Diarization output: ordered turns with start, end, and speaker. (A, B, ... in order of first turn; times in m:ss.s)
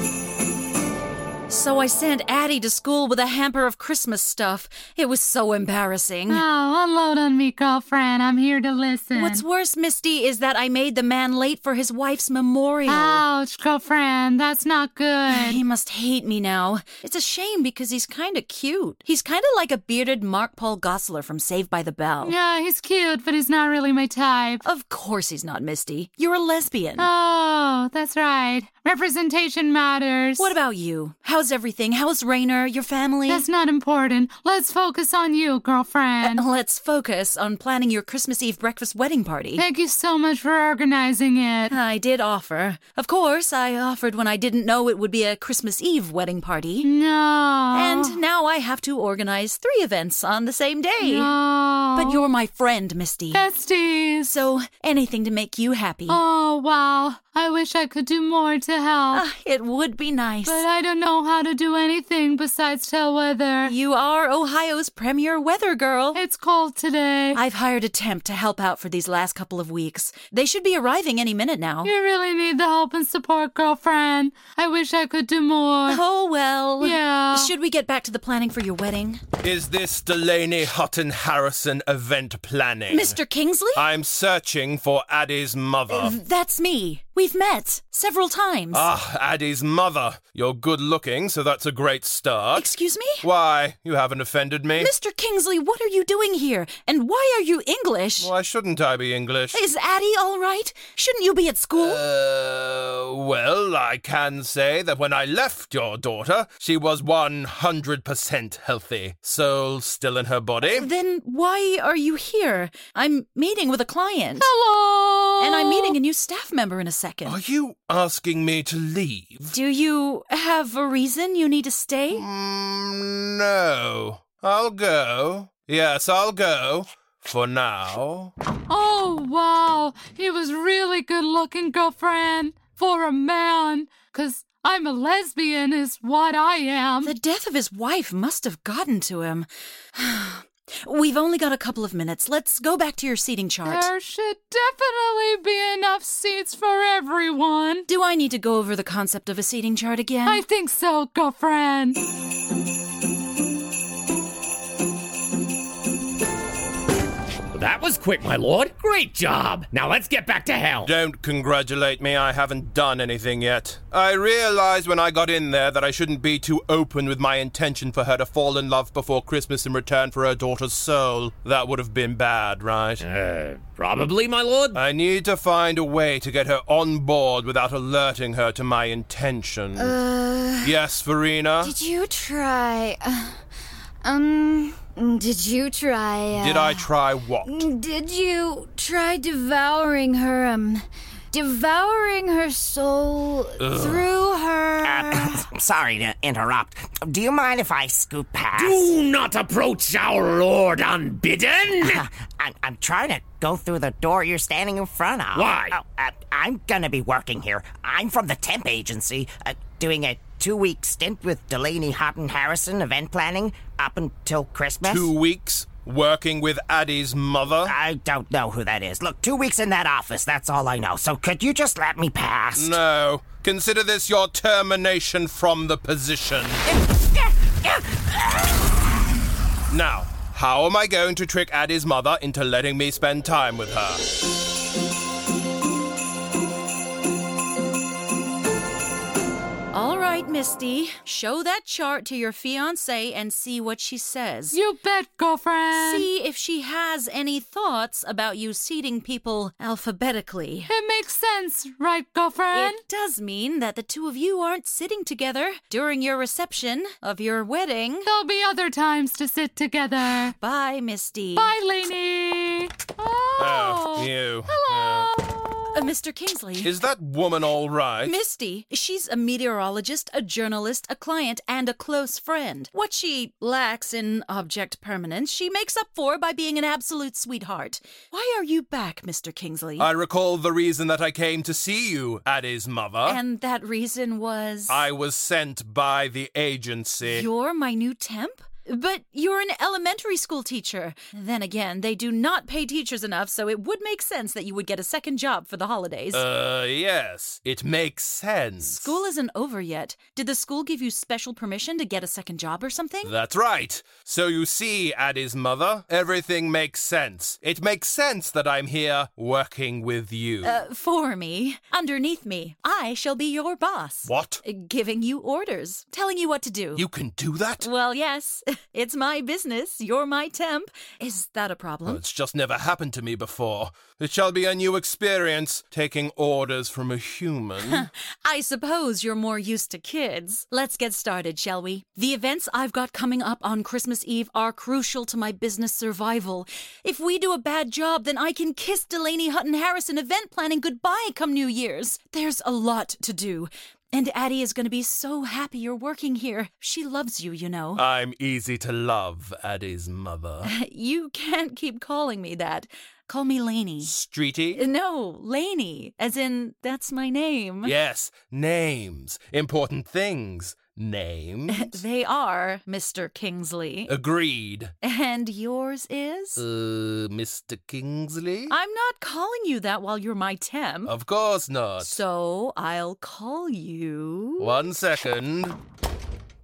0:01.5-0:06.4 A
0:06.3-0:09.4 B
0:09.1-0:13.2 A
0:12.9-0:15.6 B
0:15.3-0:22.4 A
0:22.2-0:24.6 B
0:24.6-0:27.1 A
0:27.0-0:30.5 B
0:30.4-0:33.4 A
0:33.3-0:36.4 B
0:36.2-0:39.6 A
0:39.6-0:41.8 B
0:41.7-0:46.9 A
0:46.8-0:48.2 B
0:47.7-0:51.4 A
0:51.0-0:52.2 B
0:51.9-0:53.4 A
0:53.3-0:54.4 B
0:54.2-0:56.2 A
0:56.1-0:59.2 B
0:59.1-1:00.6 A
1:00.5-1:03.7 B
1:03.6-1:06.2 A
1:06.1-1:07.4 B
1:07.3-1:11.9 A
1:11.8-1:16.0 B
1:15.9-1:19.2 A
1:16.8-1:17.5 B
1:19.4-1:23.2 C
1:22.9-1:23.9 A
1:23.8-1:26.2 C
1:25.9-1:28.9 A
1:28.7-1:32.7 C
1:32.5-1:33.3 A
1:33.2-1:34.9 C
1:34.8-1:38.3 A
1:38.2-1:39.6 C
1:39.5-1:42.0 A
1:41.8-1:50.9 C
1:50.6-1:54.5 A
1:54.4-1:56.0 B
1:55.4-1:57.4 A
1:57.2-1:59.6 C
1:59.5-2:02.2 A
2:02.1-2:08.3 C
2:08.7-2:17.1 B
2:17.0-2:23.9 A
2:23.6-2:27.9 B
2:27.9-2:30.4 A
2:30.2-2:32.0 B
2:37.5-2:40.9 D
2:40.8-2:53.0 C
2:53.0-2:54.8 D
2:54.7-3:00.0 C
2:59.8-3:00.8 E
3:00.6-3:01.7 C
3:01.6-3:03.4 E
3:04.0-3:06.9 E
3:06.4-3:07.7 C
3:07.4-3:15.4 E
3:13.6-3:14.1 C
3:14.8-3:18.9 F
3:18.6-3:22.1 D
3:21.8-3:35.1 F
3:25.3-3:25.8 D
3:34.8-3:37.8 C
3:37.6-3:42.8 F
3:42.6-3:46.6 C
3:46.7-3:48.3 F
3:49.7-3:54.0 C
3:59.7-4:04.6 A
4:04.5-4:06.1 B
4:05.8-4:10.7 A
4:10.7-4:12.8 B
4:12.5-4:18.1 A
4:18.0-4:20.4 B
4:20.3-4:21.5 A
4:21.4-4:25.8 B
4:23.4-4:25.1 C
4:25.7-4:26.7 A
4:26.6-4:28.2 C
4:28.0-4:39.9 A
4:39.8-4:43.2 C
4:43.0-4:44.9 A
4:44.7-4:47.3 C
4:47.0-4:56.2 A
4:56.1-4:59.0 C
4:58.6-5:03.1 A
5:03.0-5:10.6 C
5:10.4-5:16.8 A
5:14.1-5:14.4 C
5:16.8-5:17.7 C
5:17.6-5:22.0 A
5:21.9-5:27.9 C
5:27.6-5:47.8 A
5:47.8-5:50.5 C
5:50.4-5:53.9 A
5:53.8-5:54.6 C
5:54.5-5:57.7 A
5:57.6-6:01.8 C
6:01.5-6:03.9 A
6:03.9-6:04.7 C
6:04.8-6:06.4 A
6:06.4-6:08.5 C
6:08.5-6:10.9 A
6:10.9-6:12.0 C
6:11.8-6:14.7 A
6:14.4-6:15.6 C